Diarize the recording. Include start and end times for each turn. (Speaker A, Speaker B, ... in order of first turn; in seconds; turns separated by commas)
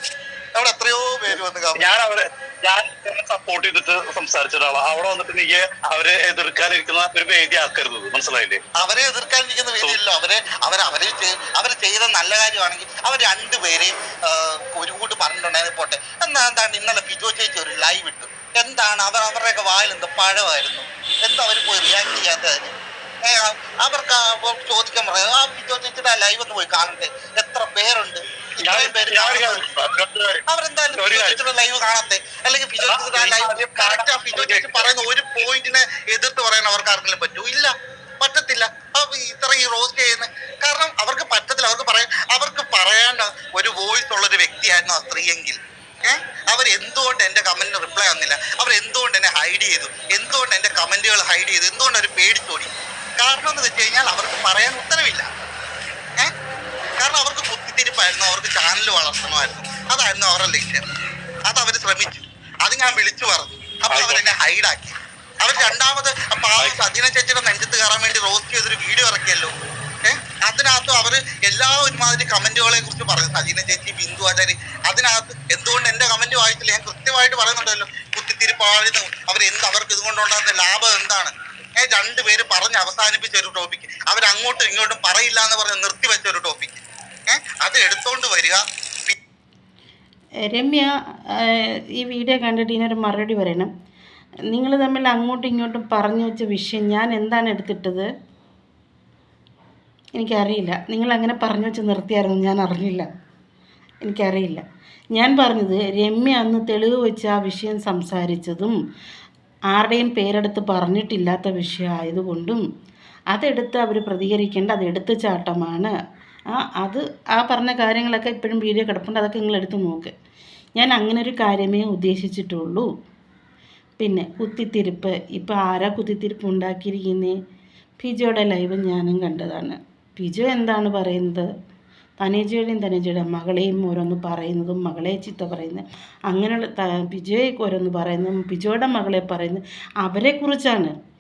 Speaker A: 0.5-1.9, Speaker B: 1.8-8.6, Speaker A: 8.8-22.7, Speaker A: 23.2-29.7, Speaker B: 28.6-30.4, Speaker A: 30.5-55.3, Speaker B: 31.0-31.4, Speaker B: 32.8-34.9, Speaker A: 57.0-60.9, Speaker A: 61.5-89.2, Speaker B: 63.9-64.2, Speaker C: 90.5-93.7, Speaker C: 94.5-98.1, Speaker C: 100.2-103.1, Speaker C: 104.0-104.6, Speaker C: 105.1-108.8, Speaker C: 109.7-112.6, Speaker C: 113.3-115.9, Speaker C: 116.5-120.1, Speaker C: 120.8-122.9, Speaker C: 124.0-127.4, Speaker C: 128.0-131.5, Speaker C: 132.2-140.9